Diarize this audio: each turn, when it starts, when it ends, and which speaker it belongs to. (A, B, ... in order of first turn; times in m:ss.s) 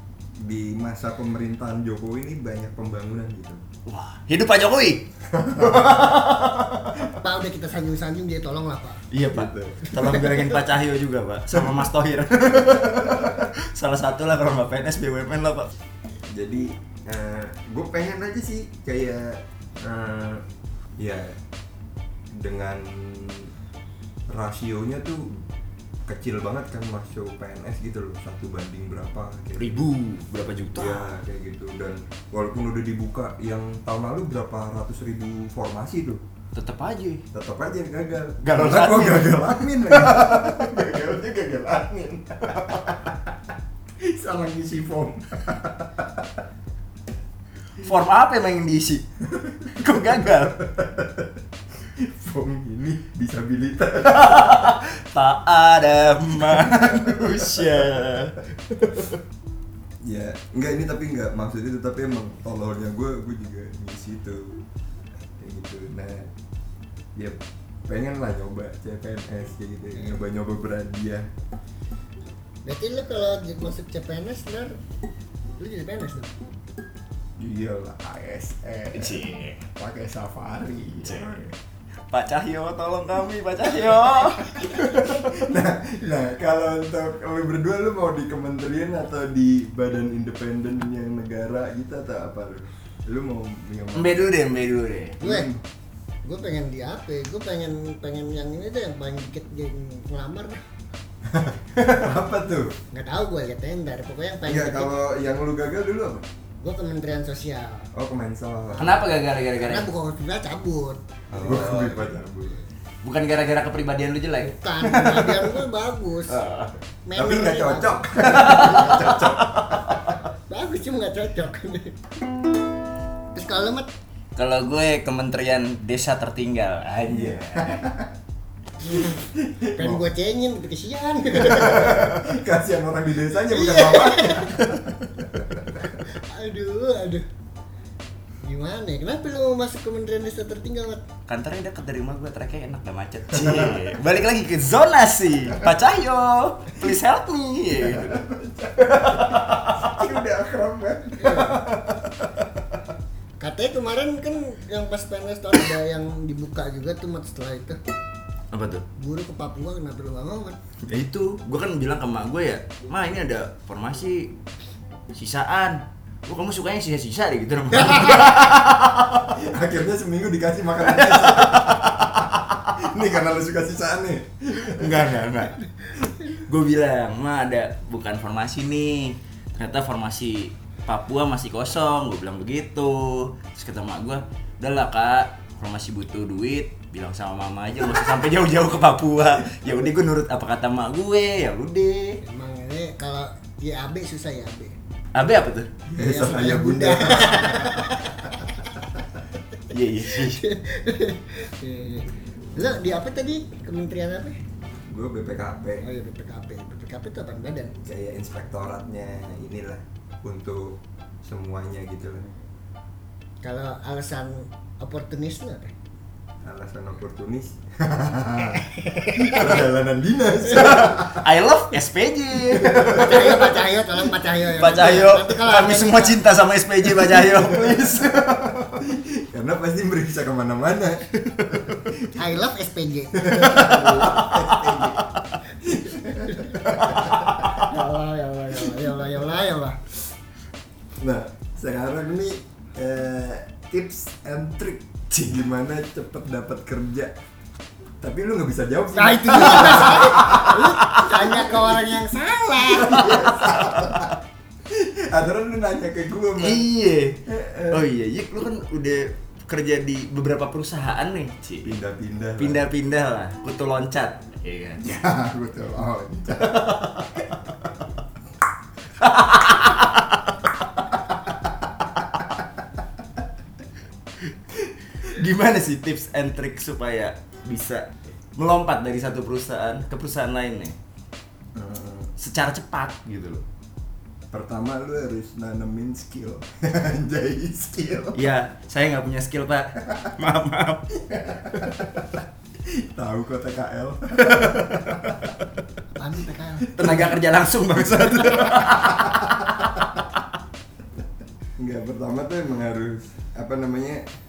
0:00.4-0:03.6 A
0:03.9-0:07.1 B
0:05.3-0:06.2 A
0:07.1-0:09.0 C
0:09.1-0:15.7 B
0:09.3-0:09.9 A
0:09.9-0:10.5 C
0:11.5-0:11.8 A
0:12.6-0:13.4 A
0:16.3-0:20.4 A
0:21.0-0:21.4 A
0:22.3-0:23.5 A
0:24.3-0:25.4 A
0:26.1-0:29.8 A
0:29.6-0:31.1 B
0:30.8-0:36.2 A
0:36.6-0:37.2 B
0:37.3-0:43.4 A
0:38.4-0:40.8 B
0:44.0-0:46.4 A
0:47.8-0:49.0 B
0:49.3-0:54.7 A
0:49.7-0:50.6 B
0:54.0-0:59.2 B
0:56.5-0:58.0 A
1:00.0-1:04.6 A
1:05.4-1:06.3 A
1:07.2-1:11.3 A
1:12.6-1:14.8 C
1:15.6-1:16.4 C
1:17.4-1:21.5 A
1:18.9-1:19.6 B
1:21.0-1:21.4 B
1:22.1-1:25.3 B
1:24.5-1:34.3 A
1:34.0-1:35.2 B
1:35.2-1:35.6 A
1:35.2-1:35.5 C
1:36.2-1:40.6 C
1:41.2-1:42.8 A
1:42.9-1:45.0 C
1:44.5-1:46.2 A
1:46.6-1:47.9 C
1:47.9-1:49.1 A
1:48.8-1:49.9 B
1:49.6-1:51.0 C
1:51.3-1:52.1 B
1:51.3-1:52.6 A
1:53.0-1:55.6 B
1:54.4-1:56.4 C
1:56.3-1:56.7 B
1:57.1-1:59.2 C
1:57.2-2:00.1 A
1:58.2-2:00.0 B
2:00.5-2:02.0 C
2:03.3-2:03.9 C
2:04.4-2:07.8 B
2:07.1-2:08.1 A
2:08.8-2:12.1 C
2:08.9-2:10.0 A
2:11.3-2:15.9 A
2:13.5-2:14.6 C
2:16.0-2:17.2 C
2:18.4-2:21.0 C
2:21.3-2:28.2 B
2:23.3-2:23.9 A
2:27.8-2:31.8 A
2:28.8-2:30.0 B
2:31.2-2:31.6 C
2:31.3-2:32.0 B
2:33.4-2:37.8 C
2:38.5-2:38.8 B
2:39.0-2:40.6 C
2:40.8-2:44.3 B
2:45.1-2:49.4 B
2:47.9-2:48.2 C
2:49.4-2:55.2 A
2:50.8-2:52.7 B
2:54.6-2:55.6 B
2:56.3-3:12.2 B
3:12.2-3:14.8 C
3:15.1-3:15.7 B
3:15.9-3:18.1 A
3:16.0-3:18.8 C
3:19.7-3:20.4 B
3:20.0-3:24.4 C
3:24.8-3:25.9 A
3:25.8-3:27.8 C
3:27.8-3:32.2 A
3:33.4-3:35.7 C
3:36.4-3:41.3 A
3:38.7-3:39.6 C
3:40.5-3:43.6 B
3:42.4-3:43.4 A
3:42.9-3:46.2 C
3:44.4-3:48.8 B
3:47.0-3:52.1 A
3:51.2-3:51.8 B
3:52.1-3:54.0 C
3:53.2-3:55.1 A
3:53.3-3:55.2 B
3:55.6-3:57.5 A
3:56.2-3:56.6 C
3:56.6-3:57.6 B
3:57.4-3:59.8 C
4:01.0-4:07.1 A
4:08.0-4:10.8 A
4:09.0-4:13.4 C
4:09.4-4:10.6 B
4:11.5-4:11.8 A
4:12.6-4:16.7 A
4:13.4-4:14.1 B
4:16.4-4:21.8 B
4:17.2-4:17.9 A
4:21.6-4:22.7 A
4:22.4-4:24.9 B
4:24.8-4:27.2 A
4:26.4-4:27.2 B
4:29.0-4:30.4 B
4:34.6-4:40.8 B
4:41.6-4:42.1 A
4:42.2-4:43.4 B
4:44.3-4:48.2 A
4:48.1-4:50.9 B
4:51.0-4:55.3 A
4:54.3-4:55.3 B
4:55.9-4:57.0 C
4:56.7-4:57.2 A
4:56.8-4:59.5 B
4:57.8-4:59.0 A
5:01.6-5:04.1 A